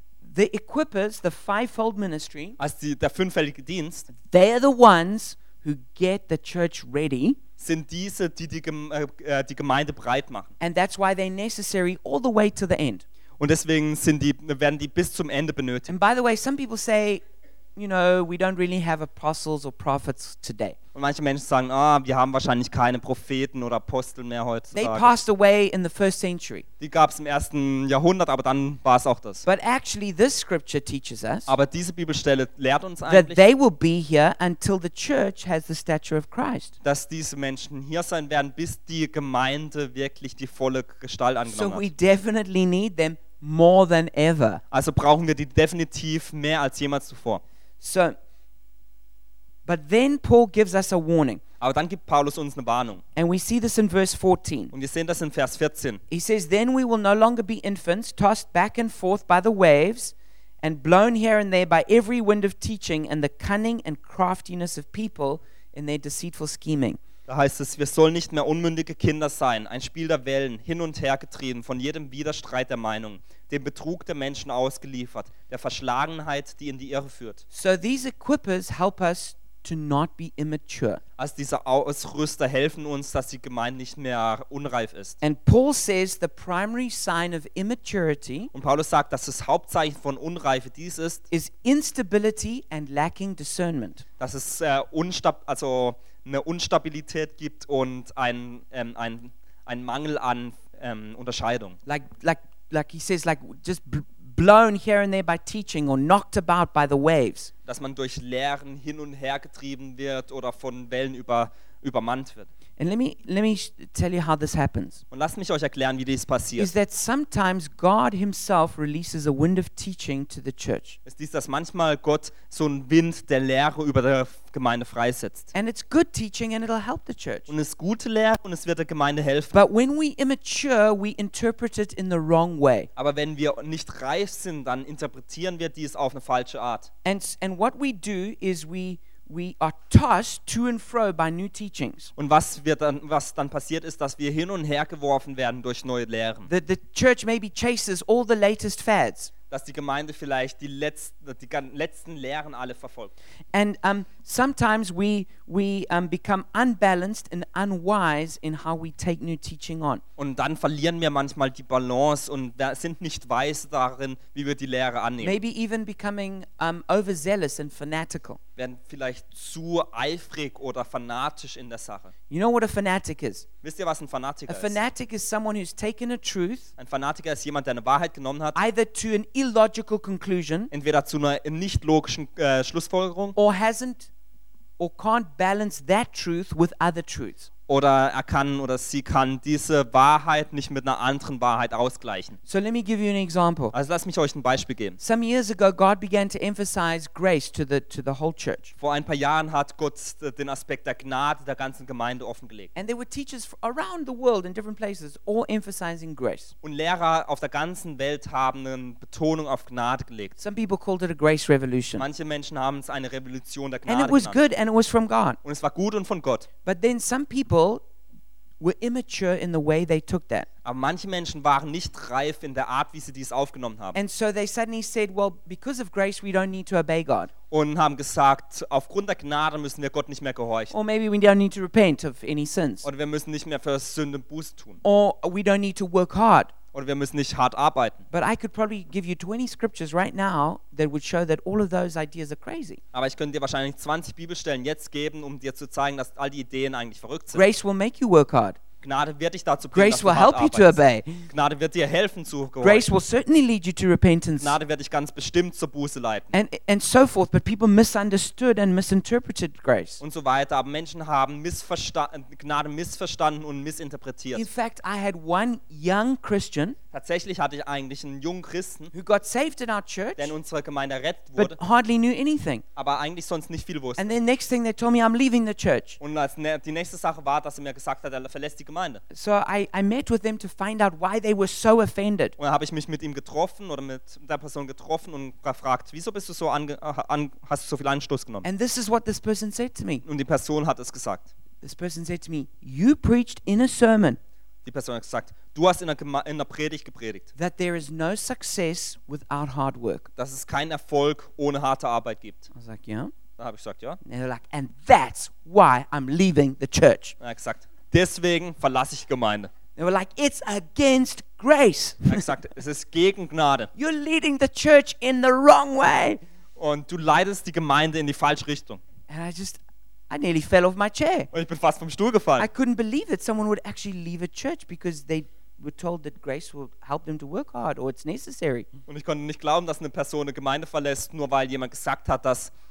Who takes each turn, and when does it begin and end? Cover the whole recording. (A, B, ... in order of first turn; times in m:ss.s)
0:00.2-0:02.6 A
0:02.6-0:04.1 B
0:04.1-0:07.4 A
0:07.6-0:10.5 B
0:10.6-0:13.0 A
0:13.4-0:15.9 B
0:15.9-0:17.2 A
0:17.8-0:20.8 A
0:21.0-0:25.1 B
0:24.7-0:26.6 A
0:26.8-0:29.4 B
0:29.4-0:31.5 A
0:31.5-0:33.4 B
0:33.1-0:36.8 A
0:36.8-0:41.9 B
0:41.5-0:44.6 A
0:44.7-0:47.4 B
0:47.8-0:48.2 A
0:49.7-0:51.4 A
0:51.6-0:53.0 B
0:53.2-0:54.7 A
0:54.7-0:56.0 B
0:56.1-1:07.0 A
1:07.3-1:17.4 B
1:17.5-1:21.0 A
1:21.2-1:25.2 B
1:25.2-1:28.5 A
1:28.5-1:31.2 B
1:31.3-1:34.0 A
1:34.2-1:41.8 B
1:41.9-1:47.5 A
1:47.7-1:52.5 B
1:52.8-1:55.0 A
1:55.1-1:56.7 B
1:56.6-2:01.0 A
2:01.1-2:05.5 B
2:05.5-2:07.5 A
2:07.5-2:09.6 B
2:09.5-2:12.9 A
2:13.0-2:16.9 B
2:17.0-2:22.1 A
2:22.2-2:26.5 B
2:26.5-2:29.3 A
2:29.5-2:33.1 B
2:33.5-2:40.0 A
2:40.2-2:45.4 B
2:45.2-2:48.4 A
2:48.6-2:52.1 B
2:52.3-2:53.5 A
2:53.6-2:54.8 B
2:54.5-2:56.7 A
2:56.8-2:58.6 B
2:58.6-3:00.7 A
3:00.7-3:03.4 B
3:03.4-3:04.1 A
3:04.8-3:07.5 A
3:07.7-3:12.4 B
3:12.5-3:13.7 A
3:13.7-3:15.0 B
3:15.0-3:18.8 A
3:18.8-3:22.7 B
3:22.8-3:26.5 A
3:26.6-3:30.4 B
3:30.4-3:32.1 A
3:32.0-3:34.4 B
3:33.9-3:35.4 A
3:35.4-3:36.5 B
3:36.6-3:37.8 A
3:38.6-3:40.5 A
3:40.6-3:44.0 B
3:43.9-3:47.3 A
3:47.5-3:50.7 B
3:50.7-3:52.9 A
3:52.8-3:54.8 B
3:54.8-3:56.5 A
3:56.7-3:58.0 B
3:58.1-4:02.8 A
4:02.9-4:07.4 B
4:07.3-4:08.6 A
4:08.8-4:12.9 B
4:09.7-4:11.3 A
4:12.6-4:14.6 A
4:14.4-4:16.4 B
4:16.3-4:20.0 A
4:20.0-4:24.5 B
4:24.3-4:26.8 A
4:26.9-4:28.9 B
4:28.9-4:30.3 A
4:30.2-4:31.6 B
4:31.4-4:32.6 A
4:32.8-4:34.1 B
4:34.0-4:36.0 A
4:36.0-4:39.0 B
4:39.1-4:42.4 A
4:42.4-4:48.5 B
4:48.4-4:50.0 A
4:50.0-4:51.3 B
4:51.6-4:54.2 A
4:54.6-4:57.3 B
4:57.4-5:00.1 A
5:00.2-5:02.5 B
5:02.6-5:03.1 A
5:03.4-5:04.0 B
5:04.0-5:07.2 A
5:07.2-5:09.5 B
5:09.8-5:12.3 A
5:12.0-5:13.7 B
5:13.8-5:16.2 A
5:16.6-5:18.8 B
5:19.1-5:21.3 A
5:21.3-5:22.5 B
5:22.4-5:28.7 A
5:28.9-5:32.5 B